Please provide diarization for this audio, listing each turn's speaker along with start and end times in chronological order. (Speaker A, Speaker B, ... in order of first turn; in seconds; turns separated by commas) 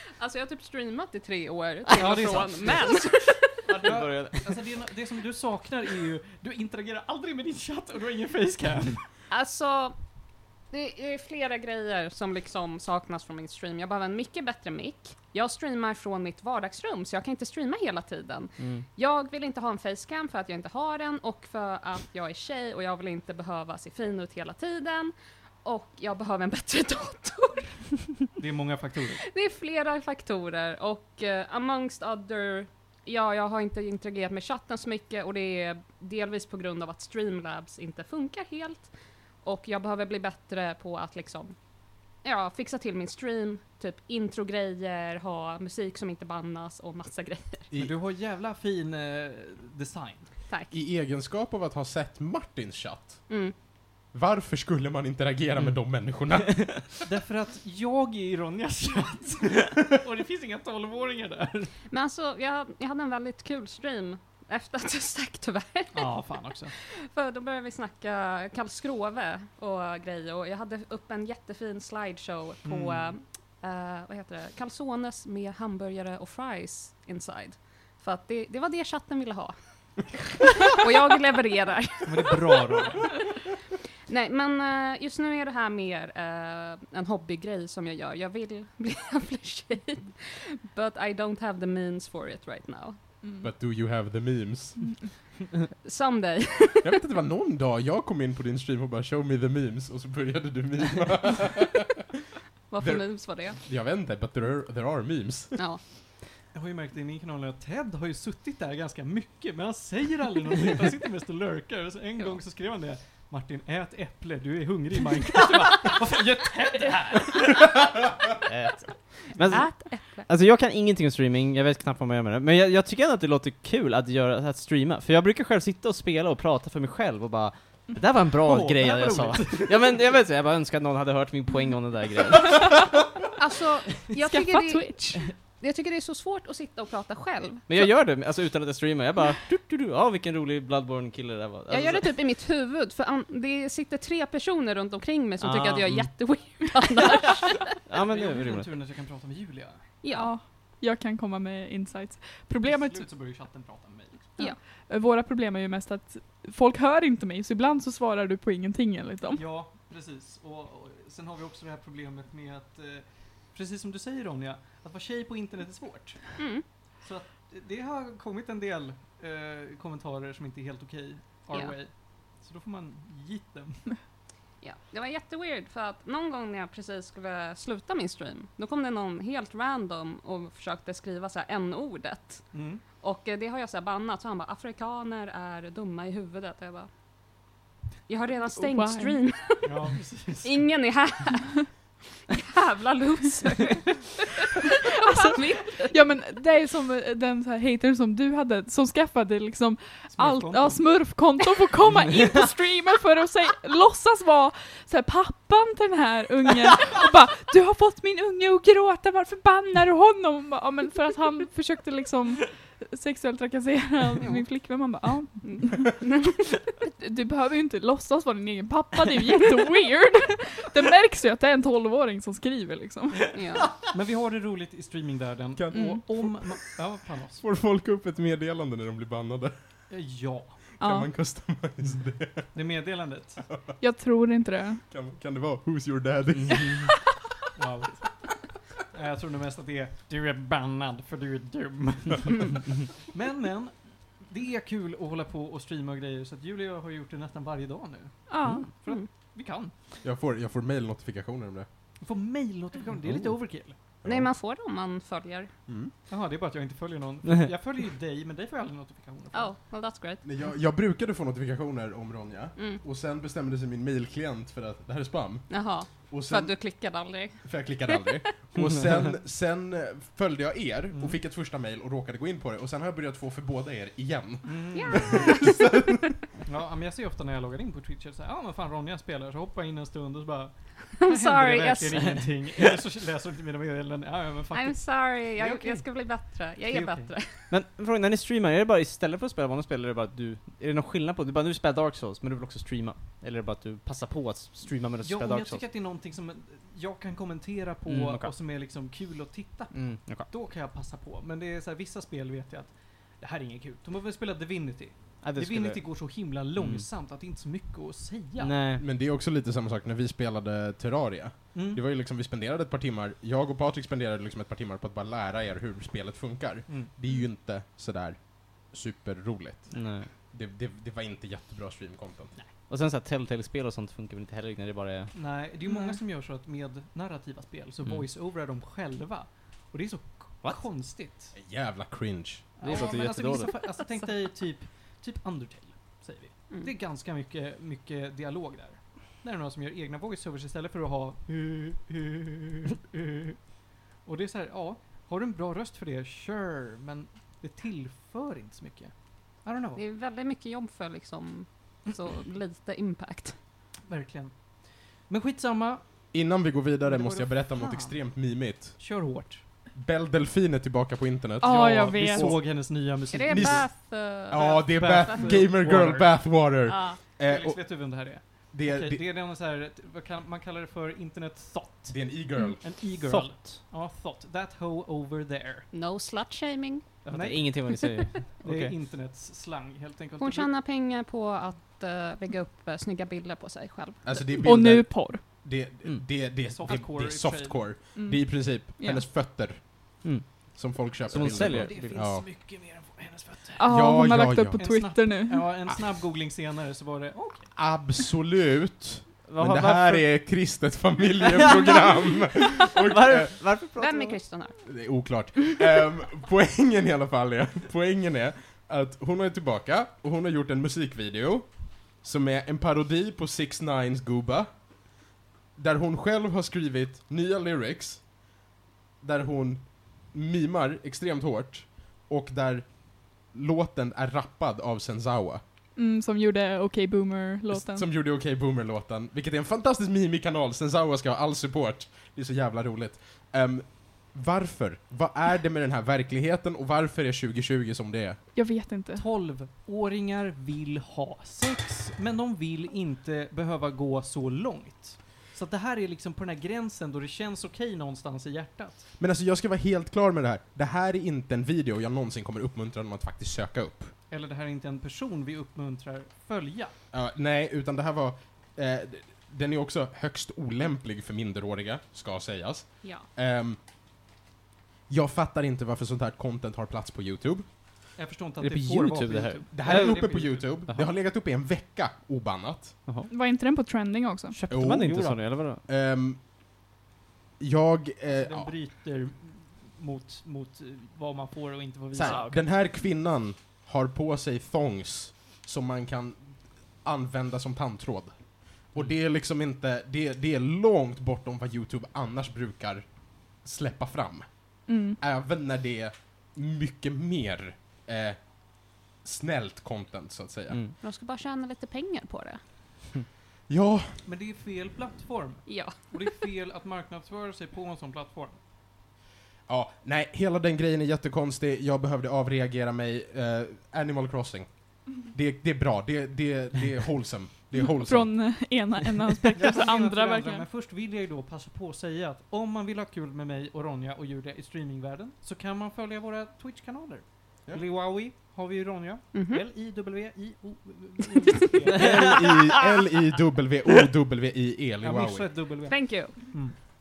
Speaker A: 0.2-3.4, Speaker B: 1.9-3.1, Speaker B: 3.6-9.0, Speaker C: 3.7-4.5, Speaker A: 9.3-9.9, Speaker A: 10.7-25.1, Speaker C: 18.6-18.9, Speaker A: 25.6-27.9, Speaker B: 28.4-29.2, Speaker A: 29.2-38.9, Speaker A: 39.4-41.5, Speaker A: 42.2-47.7, Speaker B: 47.7-50.2, Speaker D: 50.7-53.3, Speaker A: 53.3-53.5, Speaker D: 54.1-56.9, Speaker B: 57.0-61.7, Speaker A: 61.9-66.2, Speaker B: 65.9-66.7, Speaker A: 66.8-79.5, Speaker B: 72.6-73.1, Speaker A: 80.2-83.2, Speaker B: 82.0-83.1, Speaker A: 84.1-93.0, Speaker D: 93.4-95.1, Speaker A: 95.8-97.0, Speaker D: 96.8-102.0, Speaker A: 102.7-103.6, Speaker D: 102.8-105.5, Speaker A: 105.5-105.8, Speaker B: 106.5-117.7, Speaker C: 118.5-132.8, Speaker A: 119.5-120.3, Speaker B: 128.4-129.9, Speaker A: 133.4-137.8, Speaker E: 134.2-135.3, Speaker C: 137.7-142.1, Speaker A: 141.7-147.6, Speaker C: 145.4-146.1, Speaker C: 147.9-148.7, Speaker B: 147.9-149.8, Speaker A: 150.0-150.3, Speaker E: 150.1-153.1, Speaker B: 152.6-154.4, Speaker E: 154.4-159.4, Speaker B: 159.3-166.4, Speaker A: 166.4-166.6, Speaker B: 167.0-173.9, Speaker A: 174.6-182.4, Speaker B: 182.5-182.8, Speaker A: 183.0-186.9, Speaker A: 188.1-189.7, Speaker E: 188.6-189.2, Speaker B: 189.6-190.7, Speaker A: 190.4-191.6, Speaker A: 192.3-196.0, Speaker E: 194.9-215.9, Speaker B: 200.1-201.0, Speaker A: 215.4-216.3, Speaker E: 216.8-223.3, Speaker A: 223.3-223.8, Speaker B: 223.8-227.4, Speaker D: 225.6-226.5, Speaker E: 225.7-226.0, Speaker D: 227.4-229.5, Speaker B: 229.9-230.8, Speaker E: 230.8-231.1, Speaker D: 230.8-232.5, Speaker B: 232.5-233.5, Speaker E: 233.8-234.8, Speaker D: 234.9-236.9, Speaker C: 236.4-236.7, Speaker B: 237.6-238.1, Speaker B: 238.9-249.7, Speaker E: 248.3-248.8, Speaker D: 250.0-251.7, Speaker B: 252.0-253.8, Speaker D: 253.1-253.3, Speaker D: 254.0-254.3, Speaker A: 254.0-255.5, Speaker B: 256.1-259.5, Speaker A: 259.3-260.2, Speaker D: 260.2-266.5, Speaker A: 262.6-262.8, Speaker A: 265.5-268.0, Speaker D: 267.4-276.1, Speaker B: 270.9-271.2, Speaker B: 274.4-275.3, Speaker A: 274.7-275.6, Speaker B: 276.4-285.8, Speaker A: 281.0-282.2, Speaker A: 284.5-287.3, Speaker B: 286.7-287.1, Speaker C: 287.5-295.6, Speaker B: 295.0-308.5, Speaker C: 297.9-298.3, Speaker C: 299.7-300.3, Speaker C: 305.2-306.9, Speaker C: 308.4-308.8, Speaker D: 308.8-322.3, Speaker B: 311.5-311.8, Speaker C: 319.7-320.1, Speaker C: 322.7-325.1, Speaker B: 325.1-331.4, Speaker D: 331.3-332.5, Speaker B: 332.6-343.4, Speaker C: 332.6-333.5, Speaker B: 344.0-349.8, Speaker A: 349.8-353.3, Speaker B: 353.9-355.8, Speaker D: 356.1-358.8, Speaker B: 356.9-358.0, Speaker B: 358.8-359.4, Speaker D: 359.7-367.9, Speaker E: 361.4-362.4, Speaker B: 361.4-363.7, Speaker A: 363.1-365.3, Speaker B: 364.6-366.4, Speaker A: 366.6-367.0, Speaker B: 367.2-375.7, Speaker D: 368.5-369.0, Speaker D: 371.9-372.6, Speaker C: 373.0-373.6, Speaker A: 375.7-376.9, Speaker C: 377.0-378.7, Speaker B: 377.1-377.6, Speaker B: 378.4-380.5, Speaker A: 380.2-384.4, Speaker D: 384.0-392.2, Speaker E: 384.4-385.2, Speaker B: 386.5-387.7, Speaker E: 387.9-389.1, Speaker C: 390.0-392.1, Speaker B: 391.1-393.7, Speaker E: 393.6-395.5, Speaker D: 393.6-394.6, Speaker B: 394.6-397.6, Speaker D: 397.5-403.4, Speaker C: 399.3-400.2, Speaker C: 401.2-404.2, Speaker A: 403.8-404.6, Speaker D: 404.6-414.6, Speaker D: 415.6-418.1, Speaker D: 419.0-425.4, Speaker E: 425.8-427.9, Speaker D: 427.5-438.2, Speaker E: 438.3-439.0, Speaker B: 438.9-448.9, Speaker D: 449.0-453.9, Speaker B: 454.1-456.7, Speaker D: 456.9-463.6, Speaker D: 464.9-467.4, Speaker B: 467.9-470.5, Speaker C: 468.4-470.9, Speaker D: 469.5-472.8, Speaker E: 473.1-474.4, Speaker C: 474.3-475.6, Speaker D: 474.5-476.2, Speaker D: 477.4-478.5, Speaker B: 478.1-482.3, Speaker D: 481.9-488.1, Speaker C: 482.0-482.4, Speaker D: 488.7-500.6, Speaker E: 494.7-495.0, Speaker C: 500.5-500.7, Speaker A: 500.8-502.4, Speaker D: 503.5-504.0, Speaker B: 504.0-508.4, Speaker A: 505.5-505.9, Speaker D: 509.5-518.1, Speaker E: 517.6-520.4, Speaker B: 519.3-532.2, Speaker A: 529.1-529.4, Speaker D: 531.7-535.3, Speaker B: 534.8-536.5, Speaker A: 535.7-536.2